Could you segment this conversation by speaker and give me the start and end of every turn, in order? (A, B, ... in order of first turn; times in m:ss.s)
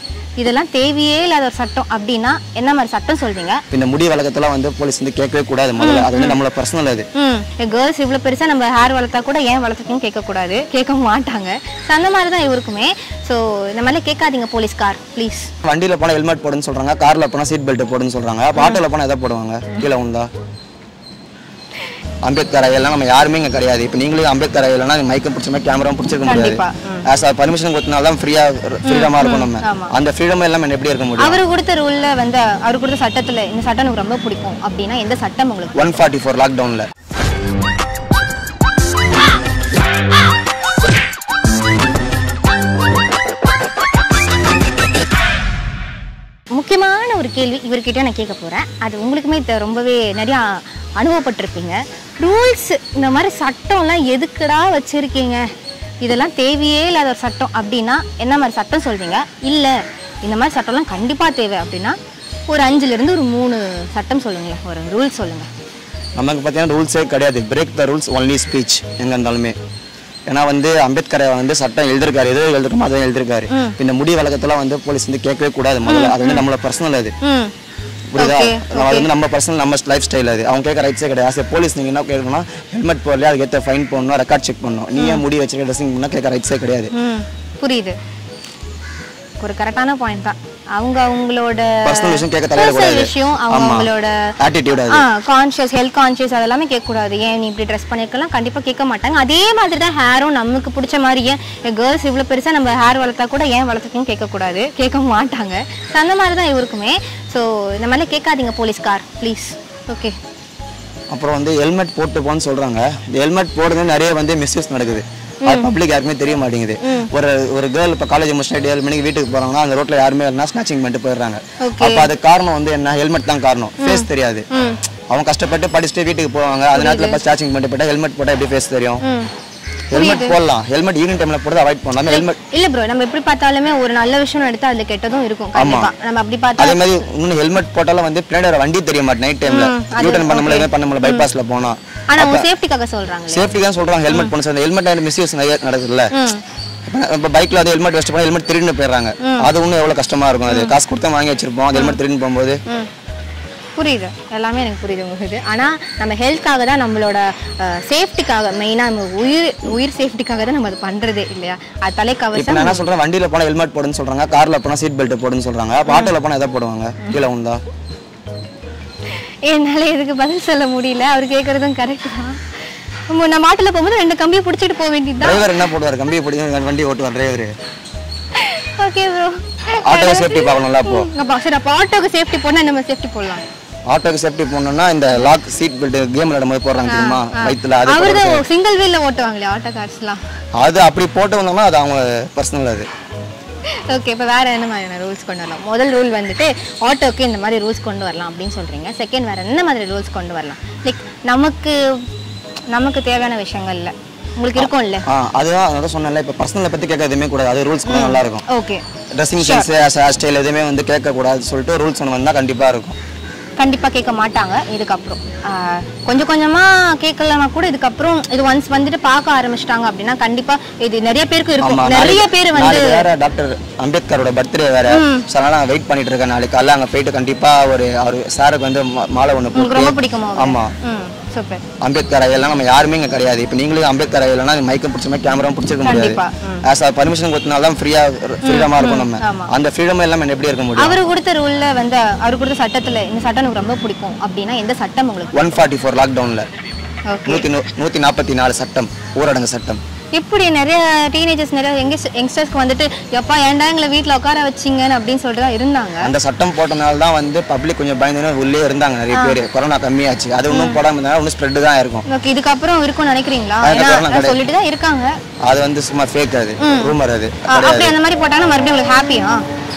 0:00.4-0:03.6 A
0:03.7-0:07.1 B
0:05.8-0:06.4 A
0:07.2-0:15.5 A
0:15.6-0:20.3 B
0:18.6-0:18.8 A
0:22.2-0:31.4 B
0:26.2-0:27.1 A
0:28.8-0:29.9 A
0:31.2-0:35.8 A
0:35.7-0:36.9 B
0:46.5-0:55.4 A
0:56.0-1:02.0 A
1:02.5-1:05.5 A
1:06.2-1:09.6 B
1:10.3-1:17.1 B
1:13.5-1:13.7 A
1:15.8-1:16.4 A
1:17.2-1:17.5 A
1:18.1-1:26.9 B
1:18.2-1:19.1 A
1:25.0-1:25.2 A
1:26.9-1:28.0 A
1:29.4-1:50.2 A
1:31.8-1:35.0 B
1:51.1-2:04.5 B
1:55.4-1:55.7 A
1:56.8-1:57.1 A
2:01.6-2:02.1 A
2:03.8-2:04.8 A
2:05.1-2:09.0 B
2:06.7-2:07.2 A
2:09.0-2:09.3 A
2:09.9-2:12.4 B
2:09.9-2:10.4 A
2:12.0-2:16.8 A
2:15.5-2:15.9 B
2:16.6-2:22.5 B
2:19.4-2:21.2 A
2:22.1-2:23.5 A
2:23.3-2:26.1 B
2:26.1-2:26.4 A
2:26.8-2:32.6 B
2:29.2-2:29.5 A
2:30.5-2:30.7 A
2:31.7-2:32.0 A
2:33.8-2:42.8 A
2:42.3-2:47.6 B
2:49.2-2:52.4 A
2:53.1-2:55.5 A
2:55.2-2:57.5 B
2:58.3-3:03.4 A
2:59.8-3:01.1 B
3:03.9-3:08.4 B
3:06.9-3:10.2 A
3:10.6-3:12.9 B
3:13.9-3:22.0 A
3:22.7-3:25.0 A
3:24.5-3:28.4 B
3:27.8-3:28.8 A
3:29.1-3:33.0 B
3:29.4-3:29.7 A
3:33.6-3:43.1 A
3:41.6-3:50.7 B
3:44.9-3:45.3 A
3:49.5-3:51.6 A
3:51.8-4:01.0 B
3:55.8-3:56.6 A
3:58.4-3:59.5 A
4:00.8-4:05.3 A
4:05.3-4:06.4 B
4:07.1-4:07.4 A
4:07.2-4:09.8 B
4:10.1-4:16.1 A
4:16.0-4:22.0 B
4:19.1-4:19.4 A
4:20.5-4:20.8 A
4:22.1-4:25.1 A
4:23.6-4:24.4 B
4:25.4-4:28.0 B
4:26.6-4:26.9 A
4:27.5-4:29.4 A